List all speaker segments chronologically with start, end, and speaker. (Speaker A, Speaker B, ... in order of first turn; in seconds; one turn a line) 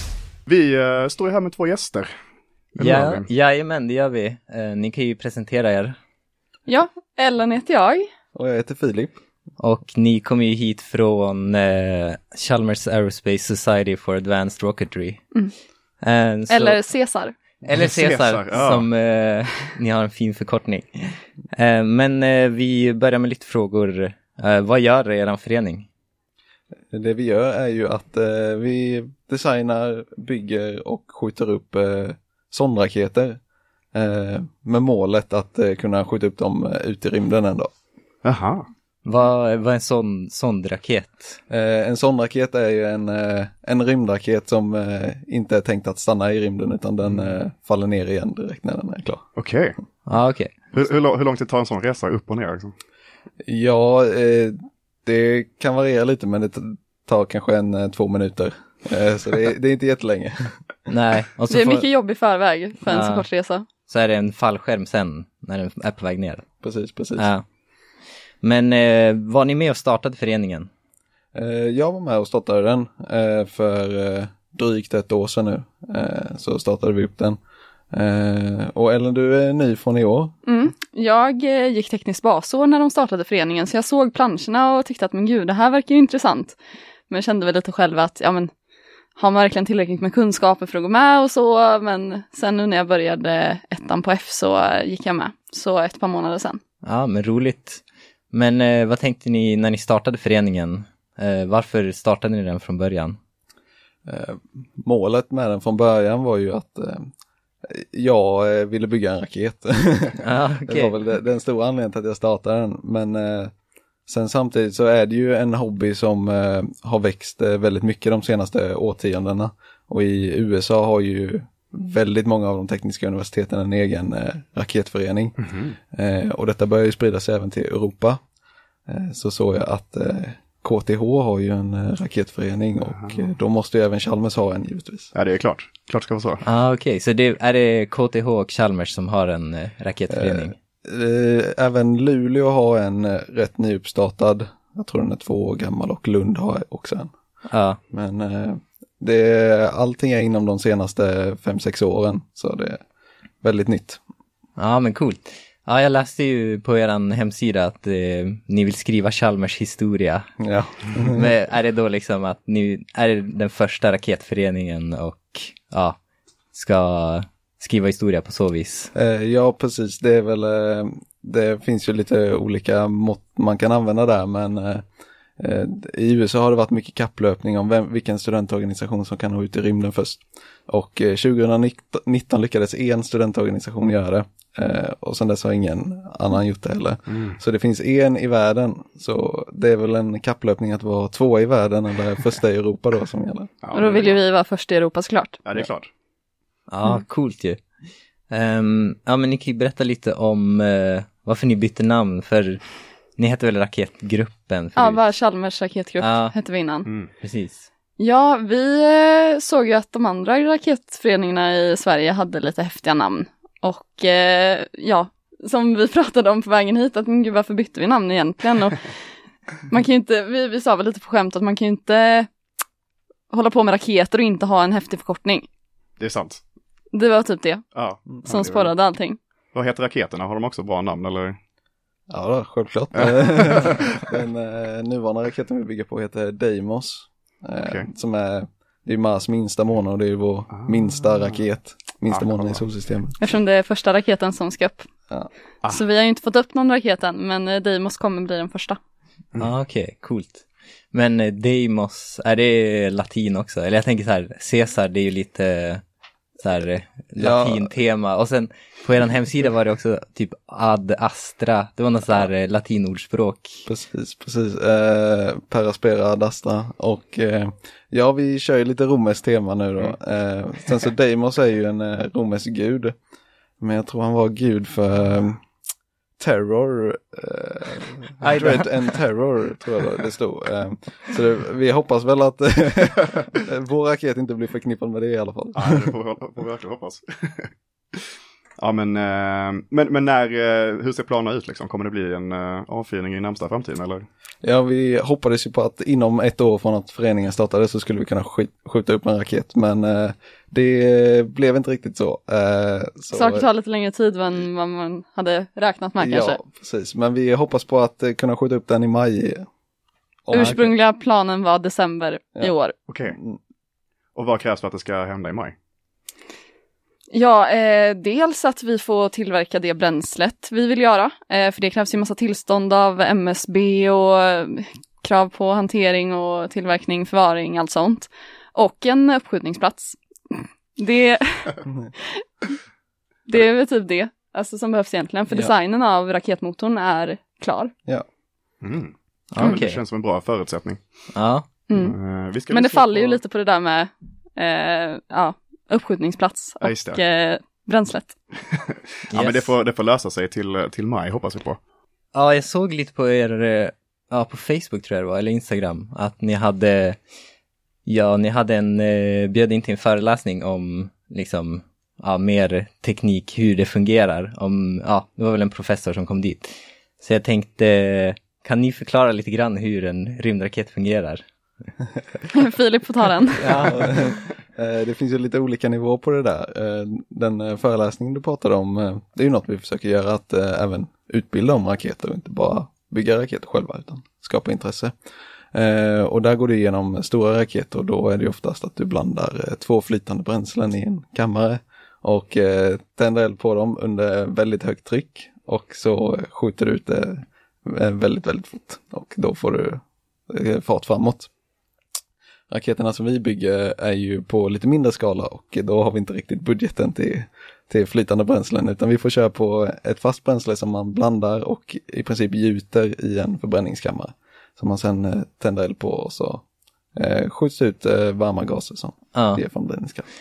Speaker A: 0.5-2.1
Speaker A: 2.8-3.3
Speaker B: 2.8-6.0
Speaker C: 6.7-8.1
Speaker D: 8.3-9.2
Speaker B: 9.6-15.2
Speaker B: 16.0-16.8
Speaker C: 16.5-17.4
Speaker B: 17.6-25.9
Speaker A: 17.8-18.9
Speaker D: 26.9-33.4
Speaker D: 33.9-37.7
Speaker A: 38.2-38.6
Speaker B: 39.0-41.4
Speaker D: 41.5-49.2
Speaker A: 49.4-49.8
Speaker B: 50.1-50.5
Speaker A: 50.7-52.7
Speaker D: 53.5-60.6
Speaker B: 60.9-61.9
Speaker C: 61.5-63.7
Speaker B: 62.9-63.3
Speaker B: 63.9-66.5
Speaker D: 66.6-67.3
Speaker B: 67.2-67.5
Speaker B: 68.4-70.7
Speaker D: 71.3-77.4
Speaker D: 77.9-80.4
Speaker C: 80.5-86.6
Speaker C: 87.1-88.5
Speaker C: 89.2-96.6
Speaker B: 96.8-103.2
Speaker D: 104.1-107.1
Speaker D: 107.7-113.5
Speaker B: 110.2-111.0
Speaker D: 114.1-125.4
Speaker A: 125.4-125.8
Speaker D: 125.9-128.2
Speaker D: 128.9-135.1
Speaker A: 135.2-136.4
Speaker B: 136.4-140.6
Speaker D: 140.1-147.1
Speaker B: 147.5-147.8
Speaker D: 147.9-152.8
Speaker D: 153.4-154.0
Speaker B: 154.6-160.3
Speaker D: 160.4-161.3
Speaker B: 161.1-166.0
Speaker B: 166.5-168.9
Speaker D: 168.9-174.8
Speaker D: 175.4-193.5
Speaker A: 193.6-194.2
Speaker C: 193.7-195.4
Speaker A: 195.4-195.9
Speaker B: 196.7-197.6
Speaker B: 198.3-202.6
Speaker B: 203.2-205.0
Speaker C: 204.8-206.9
Speaker B: 206.0-206.3
Speaker B: 207.2-207.7
Speaker C: 208.0-218.9
Speaker C: 219.7-222.3
Speaker C: 223.3-225.5
Speaker A: 226.0-226.4
Speaker C: 226.9-227.7
Speaker A: 227.8-228.8
Speaker C: 228.2-229.2
Speaker A: 229.5-231.4
Speaker D: 232.1-243.2
Speaker A: 233.0-233.8
Speaker A: 237.6-237.9
Speaker A: 242.1-242.7
Speaker C: 243.2-244.9
Speaker C: 245.7-248.8
Speaker B: 249.4-255.8
Speaker B: 256.4-263.7
Speaker D: 257.2-257.8
Speaker D: 263.7-272.9
Speaker D: 273.6-275.4
Speaker D: 276.2-285.9
Speaker B: 278.2-278.6
Speaker A: 285.6-288.0
Speaker A: 288.6-294.1
Speaker D: 294.4-303.5
Speaker C: 303.1-306.4
Speaker D: 306.0-309.4
Speaker D: 310.3-310.7
Speaker C: 310.3-312.8
Speaker A: 312.9-313.2
Speaker D: 313.1-313.4
Speaker A: 314.1-315.6
Speaker C: 317.1-331.6
Speaker C: 333.3-337.7
Speaker A: 338.6-340.9
Speaker B: 339.3-339.8
Speaker B: 341.1-341.5
Speaker C: 341.7-341.9
Speaker A: 341.8-343.2
Speaker C: 342.5-348.2
Speaker A: 346.6-347.0
Speaker B: 349.1-349.6
Speaker A: 349.1-351.6
Speaker B: 352.1-357.0
Speaker B: 357.9-371.2
Speaker C: 372.3-373.5
Speaker B: 373.4-374.1
Speaker D: 373.4-384.9
Speaker D: 385.5-401.3
Speaker D: 402.5-416.4
Speaker D: 417.0-420.1
Speaker B: 419.1-419.4